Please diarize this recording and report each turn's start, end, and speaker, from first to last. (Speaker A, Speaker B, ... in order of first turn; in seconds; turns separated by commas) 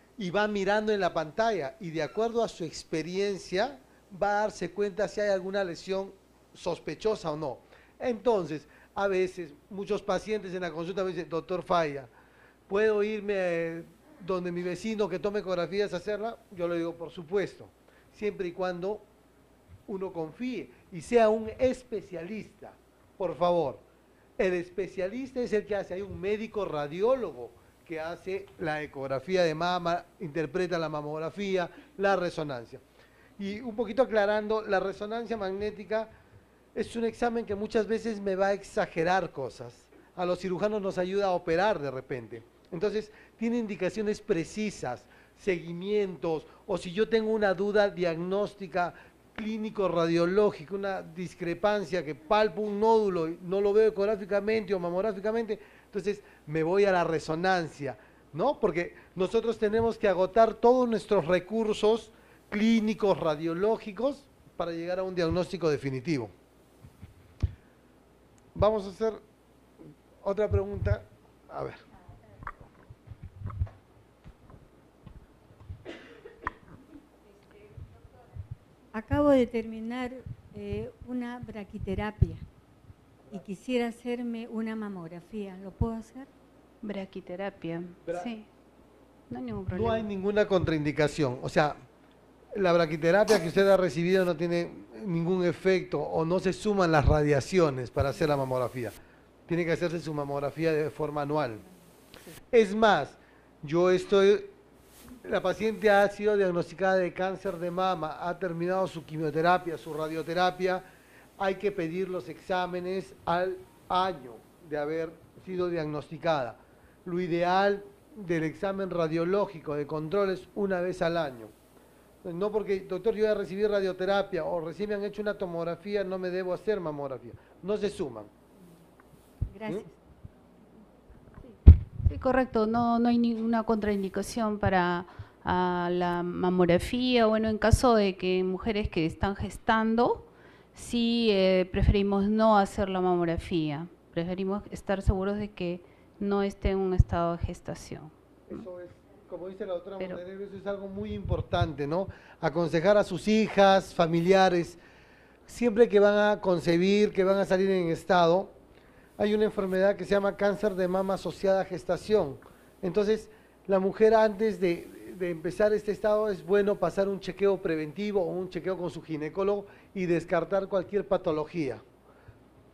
Speaker A: 0.2-12.1, Speaker A: 12.7-19.1, Speaker A: 19.9-23.8, Speaker A: 24.4-32.8, Speaker A: 33.4-36.1, Speaker A: 36.8-66.3, Speaker A: 68.5-69.2, Speaker A: 70.2-71.8, Speaker B: 78.9-82.4, Speaker B: 83.3-86.3, Speaker C: 86.8-88.5, Speaker A: 88.1-88.3, Speaker C: 89.3-90.1, Speaker A: 89.7-91.8, Speaker A: 92.5-99.0, Speaker A: 99.5-101.7, Speaker A: 102.5-104.5, Speaker A: 105.2-110.8, Speaker A: 111.4-121.5, Speaker A: 122.2-128.3, Speaker B: 129.5-129.9, Speaker C: 132.1-148.7, Speaker A: 148.5-154.8, Speaker A: 155.5-158.6, Speaker A: 159.2-171.8